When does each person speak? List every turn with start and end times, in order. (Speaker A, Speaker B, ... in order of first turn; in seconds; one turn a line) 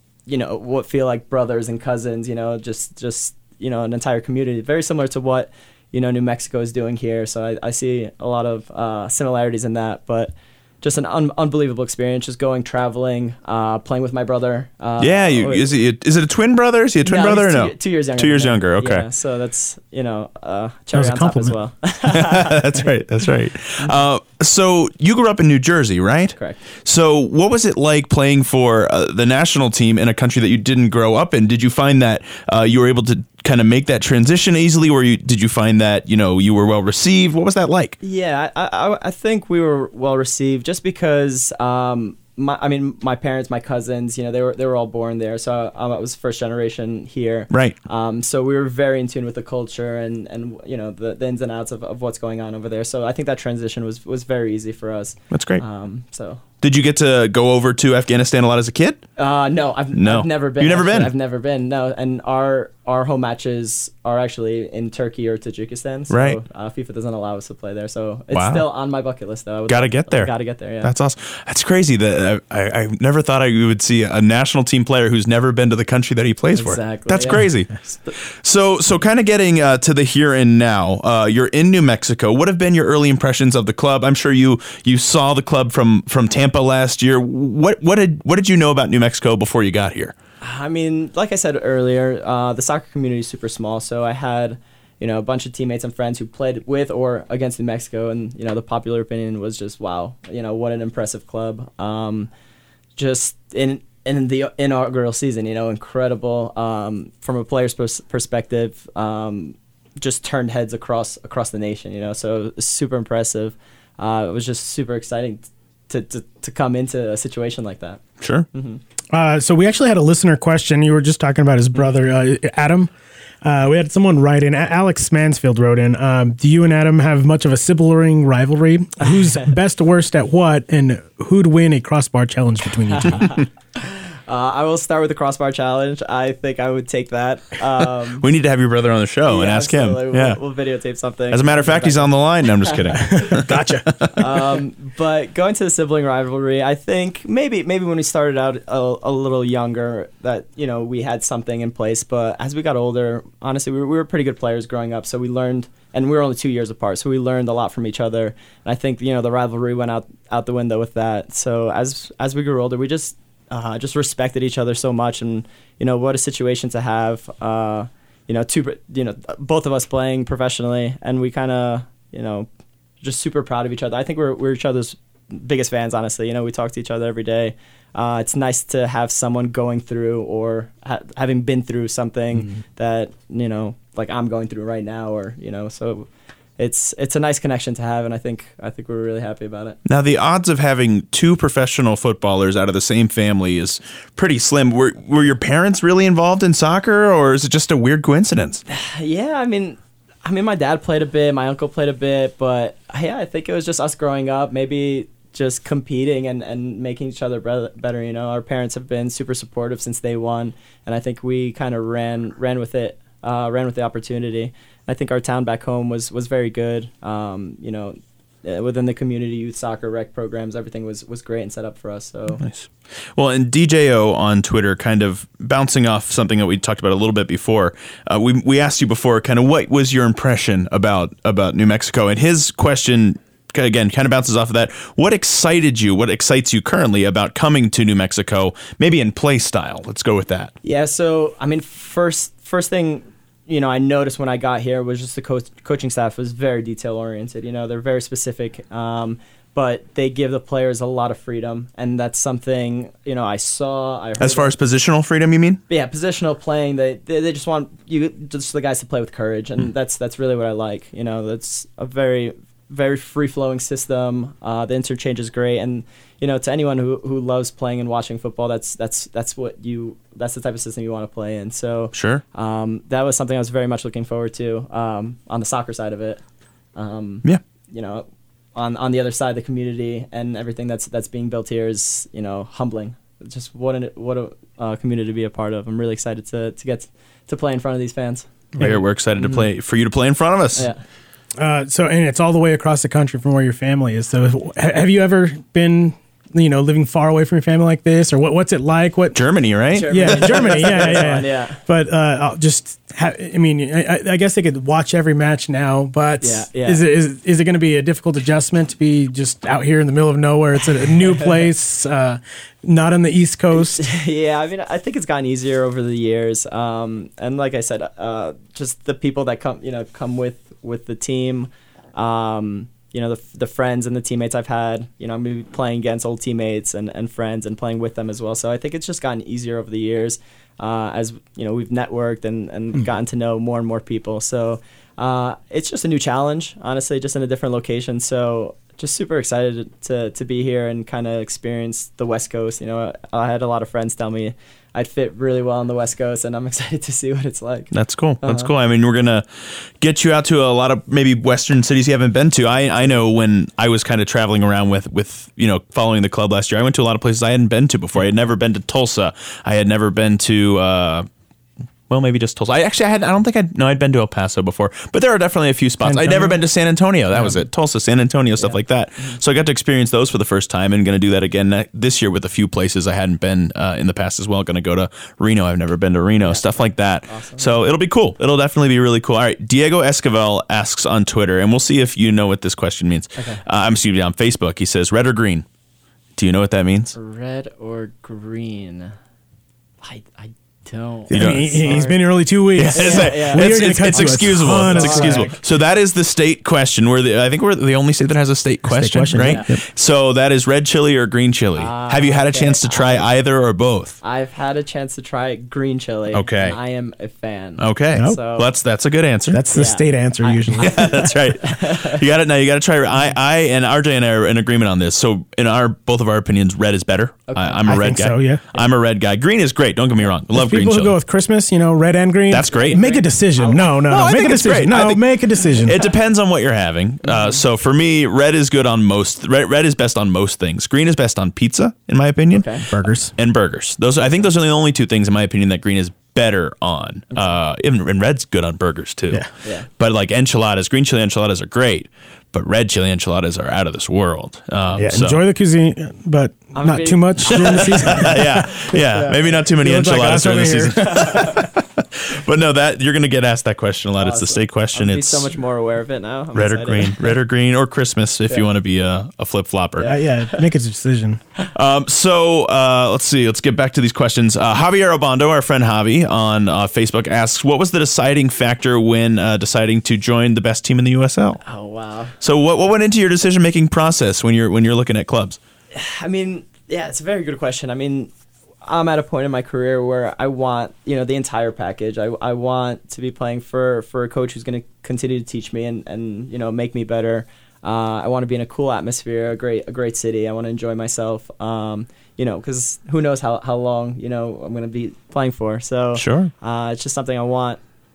Speaker A: 0.3-15.7
Speaker B: 15.0-19.1
Speaker A: 17.0-22.8
Speaker C: 20.9-21.5
Speaker B: 22.1-38.0
Speaker A: 38.0-56.4
Speaker B: 47.5-47.8
Speaker B: 55.3-55.6
Speaker B: 56.6-59.0
Speaker A: 59.2-70.9
Speaker B: 59.9-61.1
Speaker B: 66.1-66.4
Speaker B: 68.3-68.6
Speaker B: 69.7-90.1
Speaker A: 76.5-78.1
Speaker A: 90.4-102.3
Speaker A: 103.0-118.0
Speaker B: 118.2-118.5
Speaker A: 118.5-118.8
Speaker C: 119.1-133.3
Speaker A: 129.0-129.5
Speaker A: 132.9-133.4
Speaker A: 134.3-138.2
Speaker B: 138.2-140.4
Speaker A: 139.3-143.3
Speaker B: 141.3-144.3
Speaker C: 143.0-143.9
Speaker A: 144.1-172.5
Speaker A: 173.0-186.1
Speaker A: 186.6-189.8
Speaker B: 189.8-198.6
Speaker A: 198.7-222.4
Speaker B: 222.4-240.5
Speaker A: 240.6-254.5
Speaker B: 254.2-255.6
Speaker A: 255.7-276.2
Speaker B: 271.9-272.2
Speaker A: 276.8-288.3
Speaker B: 288.6-290.7
Speaker A: 289.2-289.5
Speaker C: 291.4-299.2
Speaker B: 299.1-301.1
Speaker A: 299.7-301.6
Speaker C: 299.8-313.8
Speaker A: 306.2-306.8
Speaker A: 310.9-311.4
Speaker A: 313.5-348.5
Speaker B: 347.7-361.1
Speaker B: 361.9-385.4
Speaker C: 365.8-366.4
Speaker C: 367.1-367.4
Speaker A: 368.4-369.2
Speaker A: 377.1-377.6
Speaker A: 383.1-383.4
Speaker B: 386.2-386.9
Speaker A: 386.9-388.9
Speaker A: 389.8-392.0
Speaker C: 391.1-395.3
Speaker B: 391.1-391.6
Speaker B: 392.5-403.9
Speaker A: 392.7-394.1
Speaker A: 394.7-395.4
Speaker C: 398.6-399.6
Speaker A: 399.2-399.5
Speaker A: 401.6-403.1
Speaker A: 404.0-408.5
Speaker B: 406.1-406.6
Speaker B: 407.6-409.4
Speaker C: 409.3-410.9
Speaker A: 409.5-412.0
Speaker B: 410.6-420.9
Speaker A: 417.3-417.6
Speaker C: 417.7-418.4
Speaker C: 420.3-425.8
Speaker B: 422.3-422.8
Speaker A: 422.5-423.6
Speaker B: 423.9-425.1
Speaker B: 425.6-445.2
Speaker A: 427.0-427.4
Speaker A: 432.3-432.6
Speaker C: 432.7-433.1
Speaker C: 444.8-448.7
Speaker A: 446.5-448.2
Speaker B: 447.3-455.3
Speaker A: 448.7-449.4
Speaker C: 449.6-451.1
Speaker A: 450.8-451.3
Speaker A: 454.0-457.1
Speaker B: 456.3-459.9
Speaker A: 459.8-460.4
Speaker C: 459.9-461.2
Speaker B: 461.5-471.4
Speaker A: 471.4-472.1
Speaker B: 472.2-475.4
Speaker A: 475.7-478.1
Speaker A: 478.6-497.6
Speaker B: 495.9-496.3